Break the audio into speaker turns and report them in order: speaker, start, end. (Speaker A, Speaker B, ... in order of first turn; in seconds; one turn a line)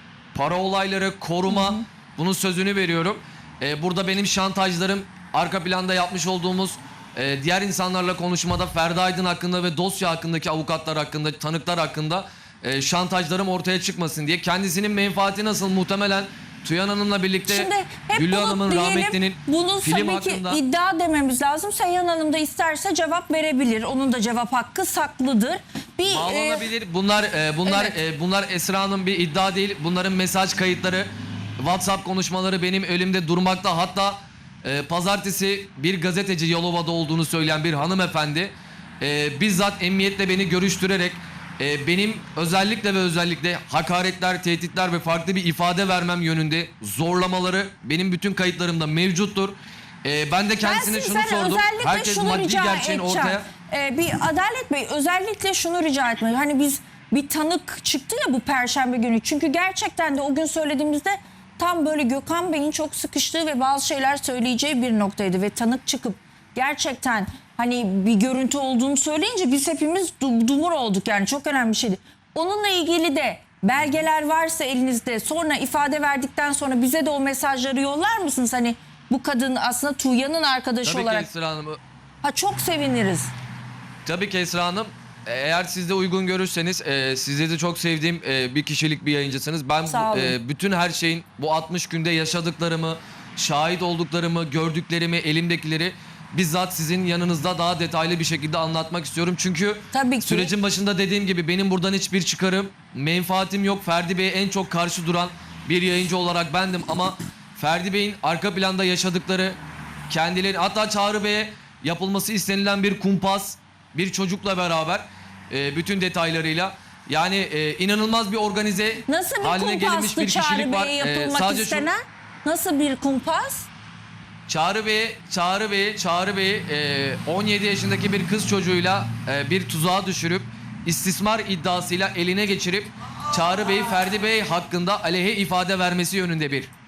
Speaker A: 0.3-20.6
Speaker B: 1.5-1.8
Speaker B: 17.5-26.7
Speaker A: 26.1-53.5
Speaker B: 27.7-27.9
Speaker B: 50.6-81.3
Speaker A: 80.8-81.8
Speaker B: 82.2-83.3
Speaker A: 84.0-109.6
Speaker B: 89.9-90.4
Speaker B: 99.9-100.5
Speaker A: 110.1-121.9
Speaker B: 119.1-123.7
Speaker A: 124.5-136.7